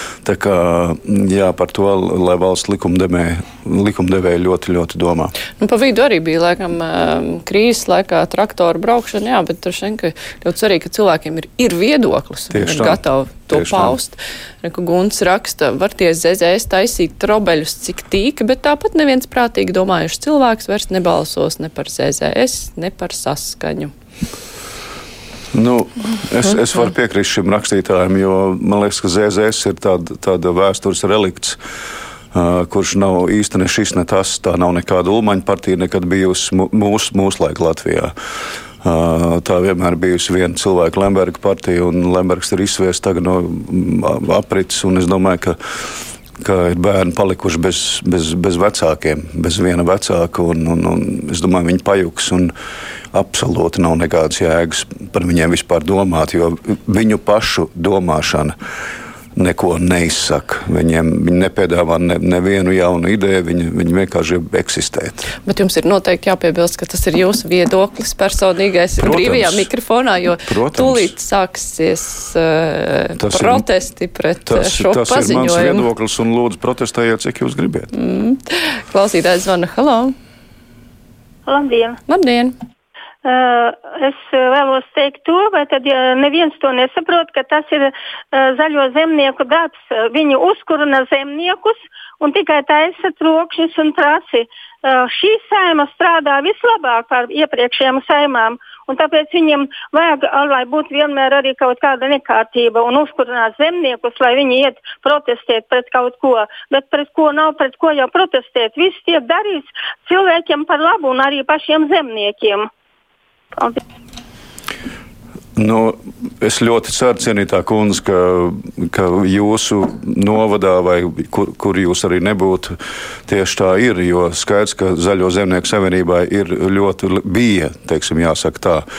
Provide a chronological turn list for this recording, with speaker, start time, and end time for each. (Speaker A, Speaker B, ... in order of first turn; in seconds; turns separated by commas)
Speaker A: 0.2-5.3, Speaker B: 5.6-23.9, Speaker A: 12.5-14.0, Speaker A: 25.5-31.6, Speaker A: 32.3-38.1, Speaker A: 38.8-45.6, Speaker A: 46.4-52.5, Speaker A: 53.1-58.5, Speaker A: 59.3-65.3, Speaker B: 65.4-75.8, Speaker A: 69.0-69.7, Speaker A: 70.4-71.1, Speaker A: 73.2-73.7, Speaker A: 74.4-77.9, Speaker B: 77.9-80.1, Speaker C: 81.5-82.0, Speaker B: 82.1-82.5, Speaker C: 83.2-112.7, Speaker A: 115.5-128.8